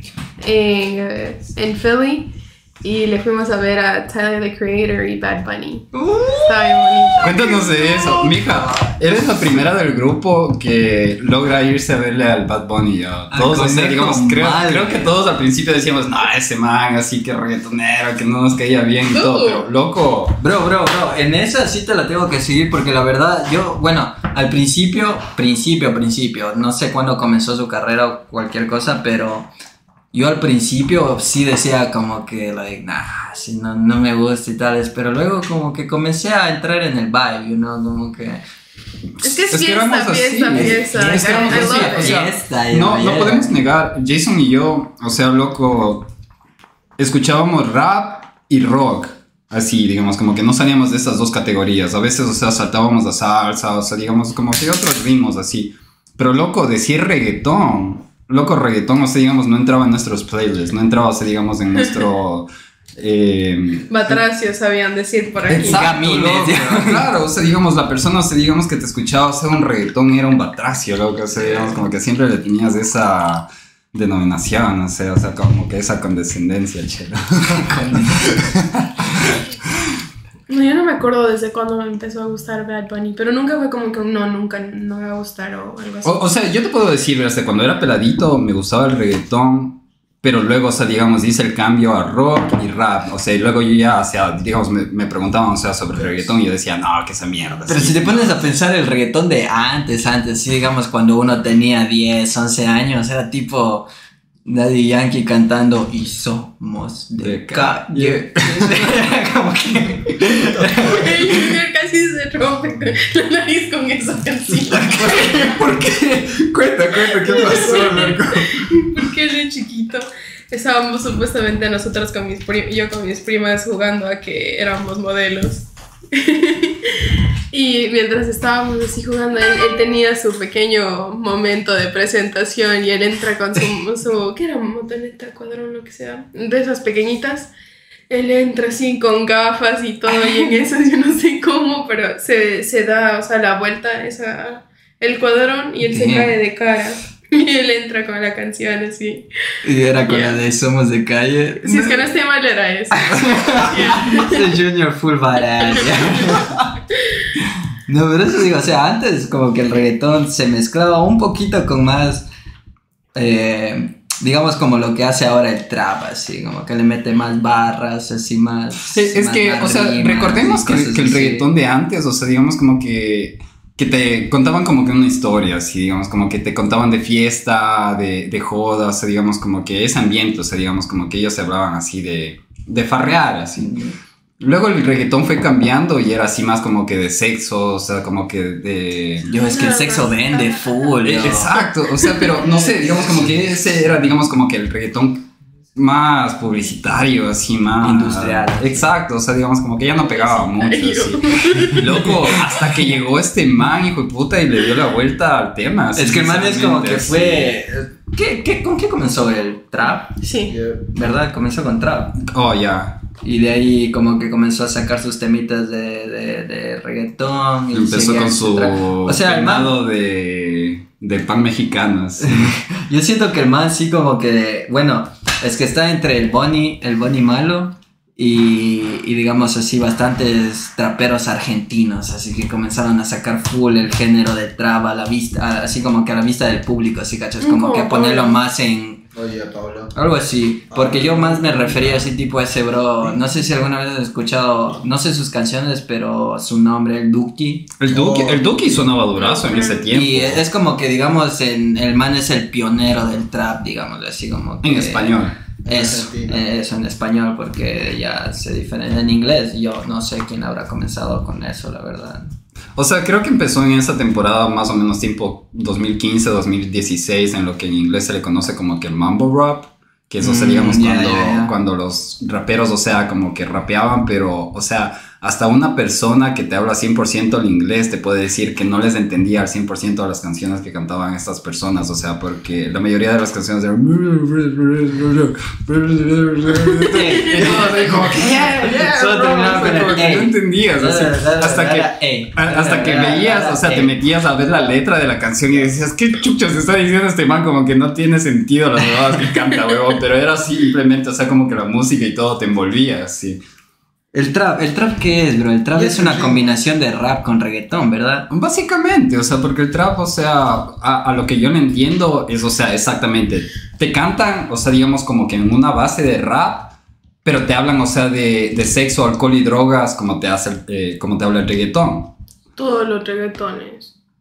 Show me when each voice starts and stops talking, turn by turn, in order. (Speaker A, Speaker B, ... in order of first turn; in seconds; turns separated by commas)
Speaker A: 0.4-8.4, Speaker B: 5.9-7.3, Speaker C: 7.2-20.4, Speaker B: 13.3-15.1, Speaker A: 19.1-19.6, Speaker B: 20.4-29.5, Speaker B: 30.1-38.4, Speaker A: 39.2-42.1, Speaker C: 39.2-46.1, Speaker B: 41.1-43.5, Speaker C: 47.0-64.2, Speaker A: 63.9-65.9, Speaker C: 65.5-79.4, Speaker B: 65.6-67.0, Speaker B: 71.4-71.8, Speaker B: 77.5-78.2, Speaker A: 80.5-86.1, Speaker C: 86.0-98.4, Speaker D: 96.0-96.3, Speaker B: 97.7-103.9, Speaker B: 104.4-111.5, Speaker C: 107.2-108.8, Speaker A: 110.7-115.5, Speaker B: 114.7-117.6, Speaker C: 114.9-118.7, Speaker A: 117.1-137.5, Speaker A: 138.1-149.3, Speaker B: 145.8-146.3, Speaker B: 149.6-152.1, Speaker A: 151.6-154.5, Speaker B: 153.1-156.5, Speaker B: 157.9-162.3, Speaker B: 163.1-171.5, Speaker C: 168.9-183.8, Speaker B: 183.6-183.9, Speaker C: 184.4-189.3, Speaker B: 189.3-191.6, Speaker A: 189.5-190.9, Speaker C: 191.0-207.6, Speaker A: 192.0-192.4, Speaker B: 192.6-193.3, Speaker B: 197.8-198.9, Speaker A: 199.9-202.5, Speaker B: 205.9-210.2, Speaker A: 210.2-210.6, Speaker D: 210.5-210.8, Speaker B: 210.9-212.2, Speaker C: 212.2-213.0, Speaker B: 213.2-219.8, Speaker C: 217.7-222.5, Speaker B: 222.2-239.0, Speaker A: 237.4-238.4, Speaker D: 239.1-239.9, Speaker B: 239.9-247.7, Speaker D: 240.7-242.1, Speaker C: 247.8-250.4, Speaker D: 247.9-248.9, Speaker A: 249.1-249.9, Speaker B: 249.9-262.3, Speaker C: 254.6-255.4, Speaker D: 255.6-256.4, Speaker C: 262.7-303.4, Speaker B: 270.2-271.5, Speaker B: 286.9-294.0, Speaker B: 304.1-308.3, Speaker D: 305.7-306.5, Speaker C: 308.3-322.1, Speaker A: 322.6-323.9